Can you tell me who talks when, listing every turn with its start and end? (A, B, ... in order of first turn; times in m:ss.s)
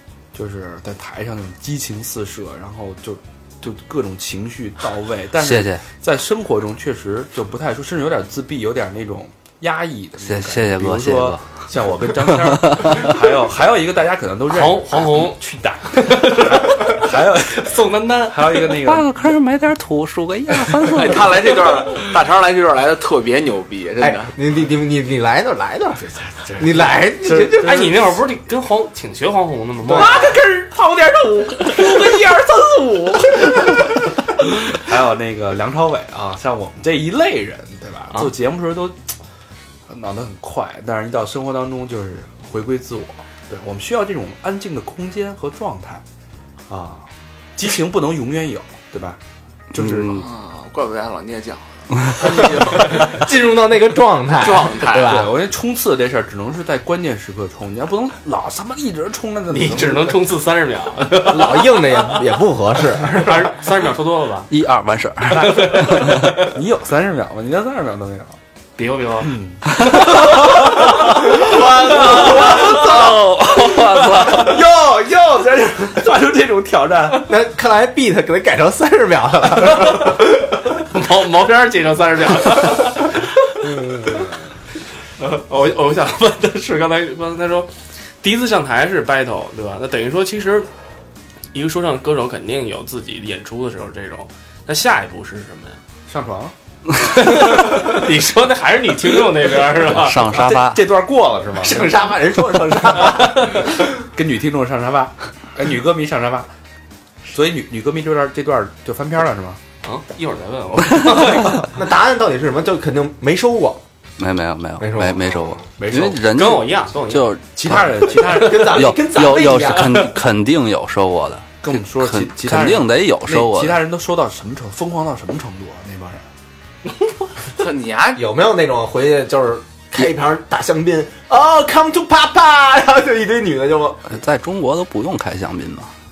0:00.3-0:19.1 A
0:05.4-0:05.8 B
0:10.2-0:11.5 B
0:12.3-0:13.1 B
0:14.5-0:15.4 C
0:15.9-0:18.7 C
0:18.7-0:21.4 B
0:20.9-0:24.3 D
0:24.0-0:27.9 E
0:26.1-0:27.9 A
0:27.6-0:30.3 C
0:29.9-0:30.3 E
0:29.9-0:39.0 A
0:39.9-0:46.0 A
0:46.7-0:47.0 A
0:47.6-0:49.2 A
0:49.7-0:50.2 A
0:49.7-0:50.2 B
0:50.1-0:53.2 D
0:52.2-0:55.4 E
0:54.4-0:55.2 D
0:55.0-1:00.2 A
0:59.5-1:02.1 C
1:01.2-1:03.6 E
1:03.1-1:04.5 C
1:04.5-1:06.3 B
1:05.3-1:08.4 A
1:05.4-1:06.4 C
1:08.8-1:09.3 C
1:09.2-1:17.3 A
1:09.8-1:10.4 B
1:11.4-1:12.8 E
1:11.7-1:14.6 B
1:17.2-1:20.7 E
1:20.8-1:23.7 C
1:23.6-1:24.2 E
1:25.2-1:30.7 C
1:31.5-1:35.8 C
1:36.1-1:36.5 A
1:37.0-1:40.3 C
1:37.2-1:38.0 A
1:39.9-1:40.8 B
1:40.2-1:46.5 A
1:41.6-1:43.8 E
1:47.2-1:49.6 A
1:49.8-1:51.7 C
1:51.2-1:51.6 A
1:51.7-1:53.8 E
1:54.2-2:03.8 B
1:54.8-1:55.6 E
1:55.8-1:56.2 A
1:56.3-1:57.3 C
1:57.5-1:58.9 A
1:58.1-2:00.1 E
2:01.6-2:06.2 A
2:07.6-2:08.2 D
2:08.2-2:14.1 E
2:14.1-2:15.9 B